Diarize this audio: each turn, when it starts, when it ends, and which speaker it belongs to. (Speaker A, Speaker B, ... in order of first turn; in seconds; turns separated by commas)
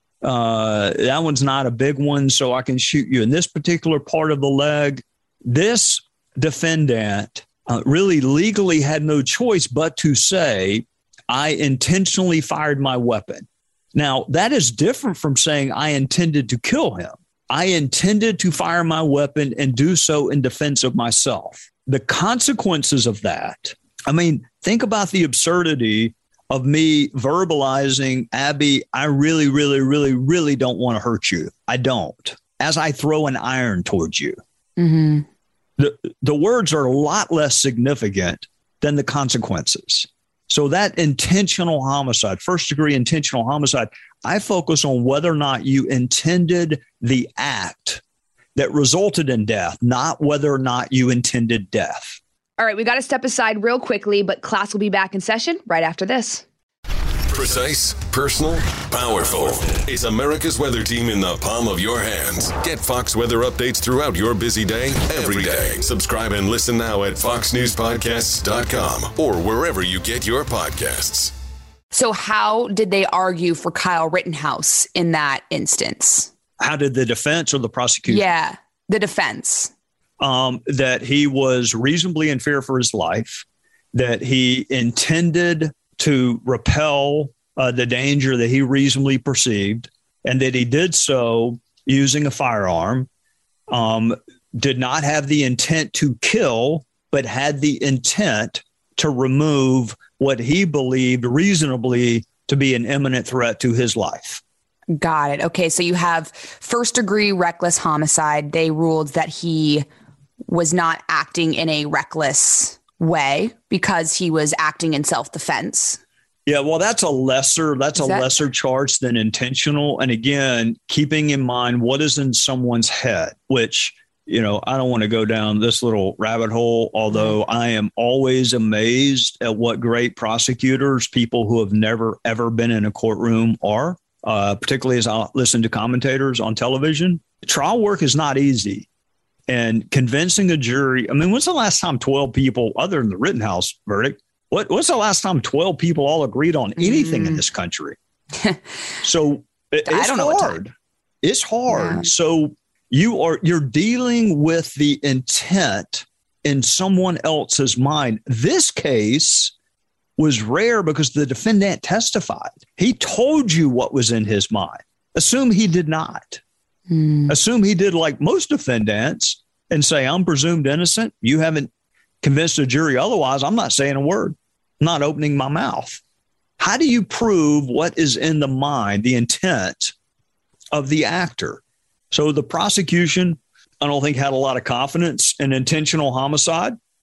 Speaker A: 0.2-34.4, Speaker B: 34.8-35.3, Speaker A: 35.8-48.0, Speaker A: 48.5-52.2, Speaker B: 52.6-56.5, Speaker C: 57.3-71.3, Speaker B: 71.9-76.3, Speaker A: 76.6-78.2, Speaker B: 78.1-79.7, Speaker A: 80.2-93.1, Speaker A: 93.7-104.4, Speaker B: 104.9-109.9, Speaker B: 110.5-116.0, Speaker A: 116.5-138.9, Speaker B: 118.0-118.3, Speaker A: 139.5-148.0, Speaker B: 146.8-147.4, Speaker A: 149.0-159.5, Speaker B: 149.9-150.6, Speaker B: 151.7-152.1, Speaker A: 160.2-166.4, Speaker B: 166.9-167.3, Speaker A: 167.3-171.7, Speaker A: 172.2-176.0, Speaker A: 176.6-179.9, Speaker A: 180.7-186.8